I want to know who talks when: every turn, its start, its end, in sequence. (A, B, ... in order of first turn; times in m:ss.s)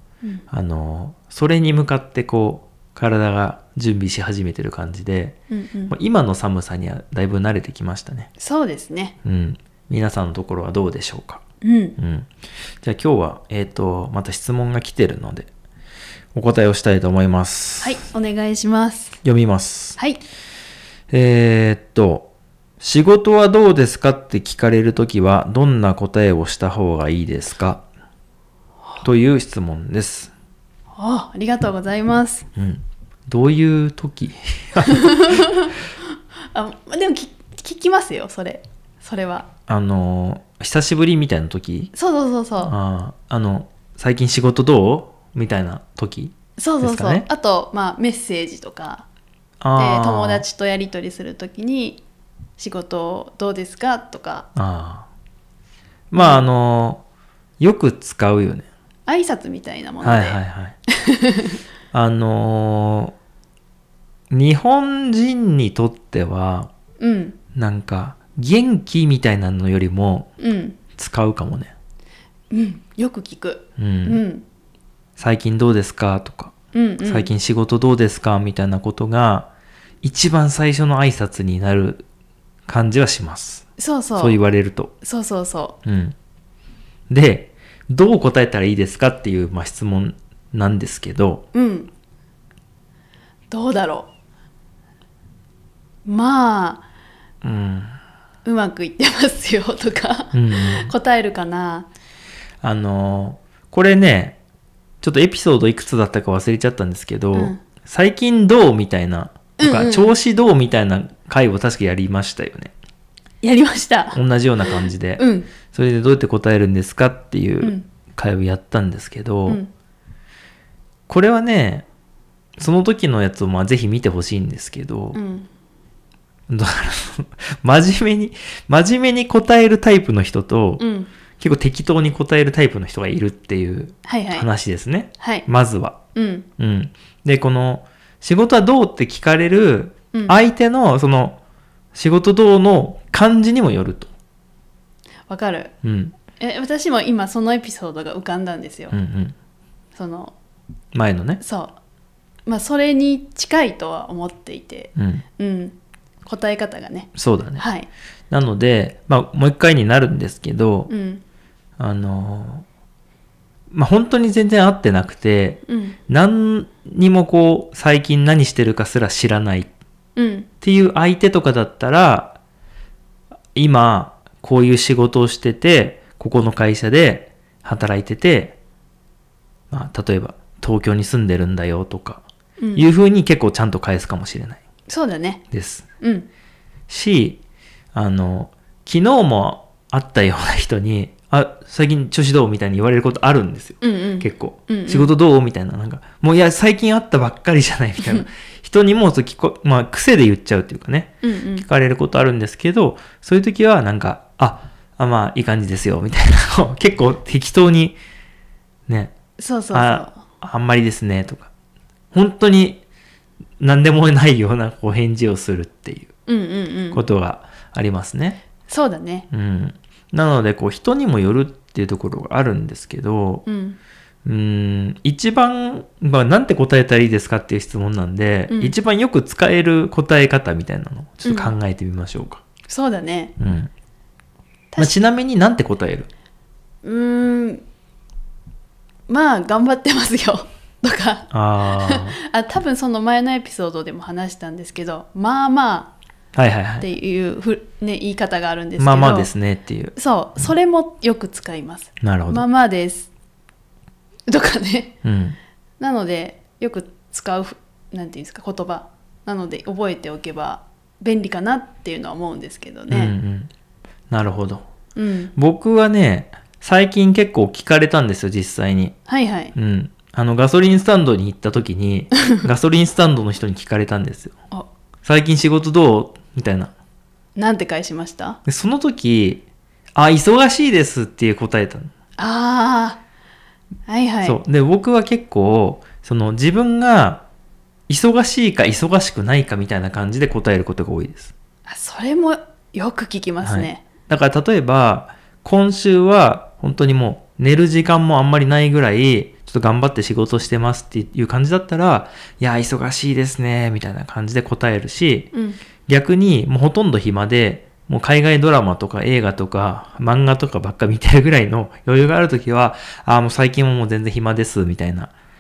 0:00.5-0:05.4 A
0:05.5-0:06.0 B
0:05.9-0:08.3 A
0:08.4-0:09.2 B
0:09.2-0:11.4 A
0:11.6-0:12.0 B
0:12.0-0:12.3 A
0:12.8-0:15.5 A
0:16.4-0:18.0 A
0:17.8-0:19.2 B
0:19.2-0:20.0 A
0:21.1-0:22.3 A
0:22.8-0:27.8 A
0:29.0-0:30.3 A
0:31.0-0:32.5 B
0:32.6-0:35.5 A
0:34.8-0:35.7 B
0:36.5-0:39.5 B
0:39.7-0:41.9 A
0:41.9-0:42.8 B
0:42.6-0:47.3 A
0:46.6-0:49.1 B
0:49.6-0:50.4 A
0:49.8-0:52.0 B
0:52.6-0:54.5 B
0:54.6-0:55.1 A
0:56.1-0:57.0 A
0:56.2-0:56.5 B
0:57.6-0:58.7 A
0:59.1-1:00.4 B
1:00.0-1:00.8 A
1:01.0-1:01.6 B
1:01.9-1:03.2 A
1:04.3-1:06.7 A
1:07.0-1:07.4 B
1:07.5-1:10.3 A
1:10.4-1:10.8 B
1:10.9-1:11.7 A
1:12.5-1:14.4 B
1:13.8-1:14.2 A
1:15.2-1:16.5 A
1:16.7-1:17.3 B
1:17.0-1:19.5 A
1:20.0-1:22.0 A
1:22.7-1:24.9 A
1:23.8-1:24.4 B
1:25.0-1:25.8 B
1:25.8-1:26.2 A
1:27.1-1:31.4 A
1:31.5-1:31.9 B
1:33.5-1:34.1 B
1:36.0-1:36.8 B
1:37.4-1:38.0 A
1:38.4-1:41.9 B
1:40.3-1:40.9 A
1:42.6-1:44.4 A
1:45.0-1:52.7 A
1:47.3-1:47.6 B
1:49.6-1:50.2 B
1:53.4-1:54.2 B
1:54.1-1:59.6 A
1:55.2-1:55.5 B
1:57.6-1:57.9 B
1:59.5-1:59.7 B
2:01.1-2:01.9 A
2:02.6-2:05.2 A
2:05.1-2:05.5 B
2:06.5-2:10.8 A
2:10.8-2:11.1 B
2:11.4-2:16.0 A
2:14.1-2:14.5 B
2:15.2-2:15.5 B
2:16.2-2:16.5 B
2:16.6-2:21.4 A
2:20.1-2:20.4 B
2:22.0-2:24.1 A
2:25.3-2:25.7 B
2:25.8-2:26.2 A
2:26.4-2:28.9 B
2:28.9-2:29.4 A
2:30.0-2:30.3 B
2:30.9-2:31.4 A
2:31.4-2:31.8 B
2:32.5-2:37.9 B
2:35.0-2:35.2 A
2:37.2-2:37.6 A
2:38.3-2:40.9 A
2:40.9-2:41.2 B
2:41.8-2:42.6 A
2:43.7-2:49.7 A
2:45.7-2:46.0 B
2:50.2-2:50.5 B
2:50.6-2:52.4 A
2:53.6-2:58.6 A
2:59.7-3:02.2 A
3:02.6-3:02.9 B
3:02.8-3:04.6 A
3:04.9-3:05.4 B
3:05.5-3:05.9 A
3:06.0-3:06.3 B
3:06.9-3:07.4 A
3:07.9-3:28.0 A
3:13.8-3:15.1 B
3:21.2-3:21.7 B
3:28.9-3:29.1 A
3:29.4-3:30.2 B
3:29.7-3:31.5 A
3:32.1-3:32.8 A
3:33.6-3:36.1 A
3:36.3-3:37.0 B
3:36.9-3:38.4 A
3:38.7-3:39.3 B
3:39.3-3:43.4 A
3:43.5-3:43.8 B
3:44.2-3:52.4 A
3:51.2-3:51.5 B
3:52.7-3:53.3 B
3:53.4-3:53.7 A
3:54.8-3:56.1 A
3:56.8-3:57.6 B
3:59.1-4:05.9 B
4:01.3-4:02.2 A
4:06.4-4:06.9 A
4:06.8-4:09.3 B
4:08.8-4:10.5 A
4:10.0-4:13.1 B
4:12.0-4:12.4 A
4:14.3-4:15.0 B
4:15.0-4:15.4 A
4:15.8-4:23.1 B
4:22.9-4:23.5 A
4:24.1-4:24.6 A
4:25.0-4:25.3 B
4:25.4-4:29.0 A
4:29.1-4:29.5 B
4:29.5-4:34.3 A
4:35.0-4:36.7 A
4:37.4-4:38.4 B
4:38.4-4:39.4 A
4:40.0-4:41.9 A
4:42.2-4:43.0 B
4:43.9-4:44.4 B
4:44.2-4:47.2 A
4:47.9-4:51.3 A
4:51.7-4:53.8 B
4:53.4-5:05.3 A
5:05.3-5:05.6 B
5:05.9-5:15.1 A